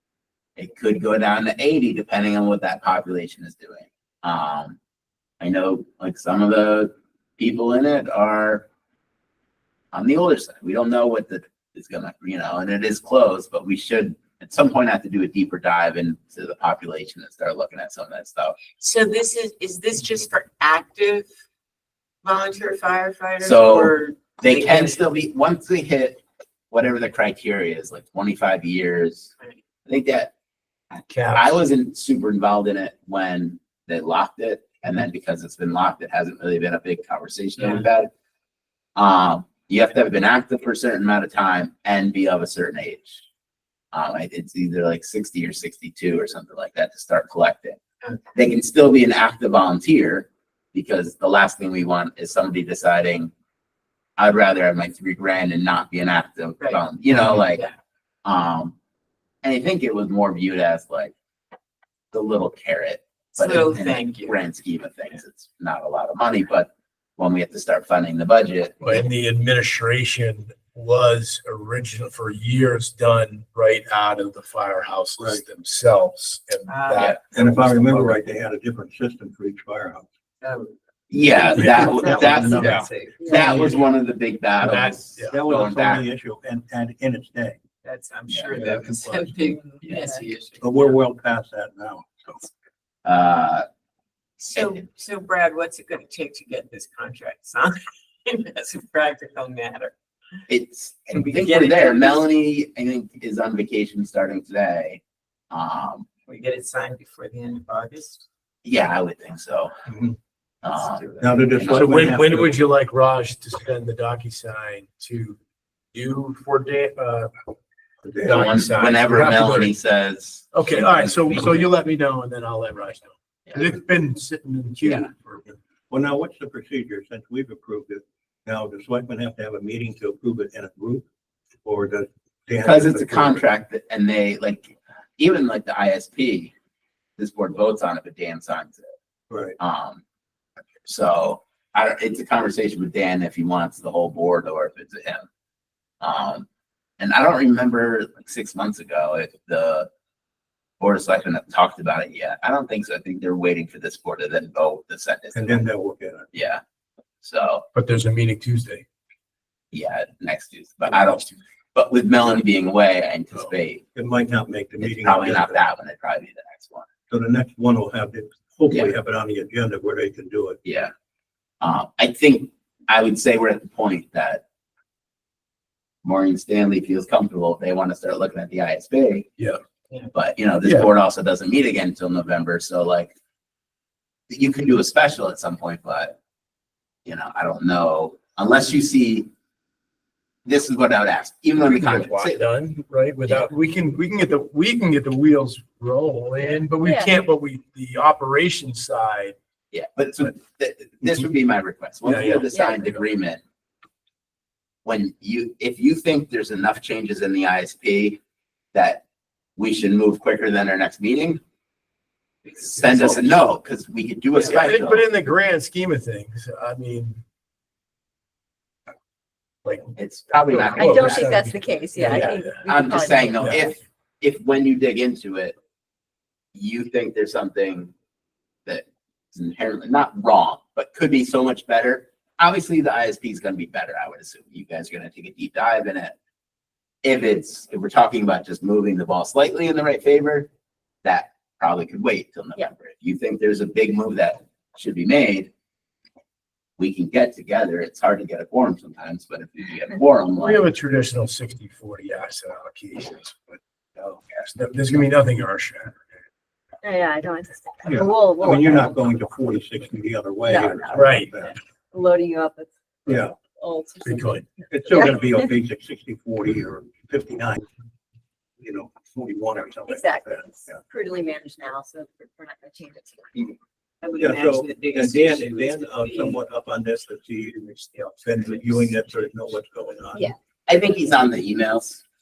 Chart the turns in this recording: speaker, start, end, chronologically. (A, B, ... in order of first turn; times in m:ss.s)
0:00.6-0:04.8 A
0:05.4-0:08.7 A
0:09.9-0:18.6 A
0:18.8-0:21.3 B
0:22.2-0:25.0 B
0:23.4-0:29.3 A
0:29.8-0:30.3 A
0:31.1-0:31.6 C
0:31.3-0:38.1 A
0:37.6-0:37.8 B
0:39.0-0:43.2 A
0:43.9-0:47.8 A
0:48.3-0:53.3 A
0:54.2-0:57.6 A
0:57.4-0:57.7 B
0:58.2-0:58.7 A
0:59.4-1:01.1 A
1:02.1-1:09.0 A
1:03.4-1:04.4 B
1:08.8-1:18.2 C
1:16.7-1:17.1 B
1:17.3-1:20.1 D
1:20.4-1:20.7 B
1:21.1-1:26.0 A
1:21.3-1:23.9 B
1:21.6-1:22.7 D
1:23.2-1:23.5 E
1:24.6-1:25.4 C
1:25.3-1:27.6 D
1:27.8-1:30.9 B
1:28.3-1:28.6 A
1:28.6-1:29.0 D
1:30.6-1:32.5 D
1:33.0-1:33.6 A
1:34.4-1:34.8 A
1:34.5-1:39.9 B
1:40.5-1:46.0 A
1:41.1-1:42.2 B
1:46.3-1:48.2 B
1:48.6-1:49.7 A
1:49.9-1:50.2 D
1:50.6-1:52.1 A
1:50.7-1:51.2 B
1:51.2-1:52.5 D
1:51.7-1:55.4 C
1:55.9-1:57.3 C
1:58.0-1:58.5 D
1:58.2-1:59.8 C
1:58.2-2:01.6 A
2:00.5-2:05.5 C
2:04.8-2:05.1 A
2:05.9-2:11.0 D
2:11.6-2:13.4 D
2:12.6-2:16.5 A
2:17.2-2:18.9 A
2:19.3-2:19.6 D
2:19.6-2:20.0 A
2:20.8-2:25.2 A
2:26.0-2:26.4 A
2:27.0-2:29.9 A
2:30.8-2:35.6 A
2:35.3-2:36.2 D
2:36.3-2:36.6 A
2:37.2-2:37.6 A
2:37.7-2:38.8 C
2:39.7-2:43.8 A
2:40.9-2:41.2 C
2:43.9-2:45.6 D
2:44.8-2:46.9 A
2:47.1-2:50.6 D
2:50.6-2:50.9 A
2:51.6-2:54.4 A
2:56.0-2:59.3 A
3:00.1-3:03.1 A
3:00.6-3:00.9 C
3:04.3-3:06.1 A
3:07.0-3:09.3 A
3:10.4-3:12.4 A
3:11.6-3:19.4 C
3:13.2-3:13.5 A
3:16.8-3:17.2 E
3:19.7-3:23.4 A
3:22.0-3:23.0 C
3:22.5-3:22.8 E
3:24.8-3:28.2 A
3:28.7-3:29.0 A
3:29.6-3:31.4 A
3:32.4-3:33.3 B
3:32.6-3:35.0 A
3:34.4-3:34.7 B
3:34.4-3:37.2 C
3:39.6-3:43.7 C
3:40.0-3:41.4 A
3:40.7-3:43.6 E
3:42.1-3:45.6 A
3:46.5-3:47.9 A
3:48.6-3:56.1 A
3:57.0-4:00.5 A
4:01.0-4:05.5 A
4:06.8-4:10.6 A
4:10.4-4:13.6 C
4:14.2-4:16.0 C
4:16.8-4:18.9 E
4:17.8-4:21.6 D
4:20.5-4:21.1 E
4:20.9-4:21.3 C
4:21.9-4:25.5 E
4:23.1-4:23.4 D
4:24.0-4:24.5 C
4:24.7-4:27.6 D
4:28.6-4:30.8 D
4:29.9-4:33.5 E
4:34.0-4:36.4 B
4:34.2-4:40.2 D
4:37.7-4:38.8 B
4:40.7-4:42.0 A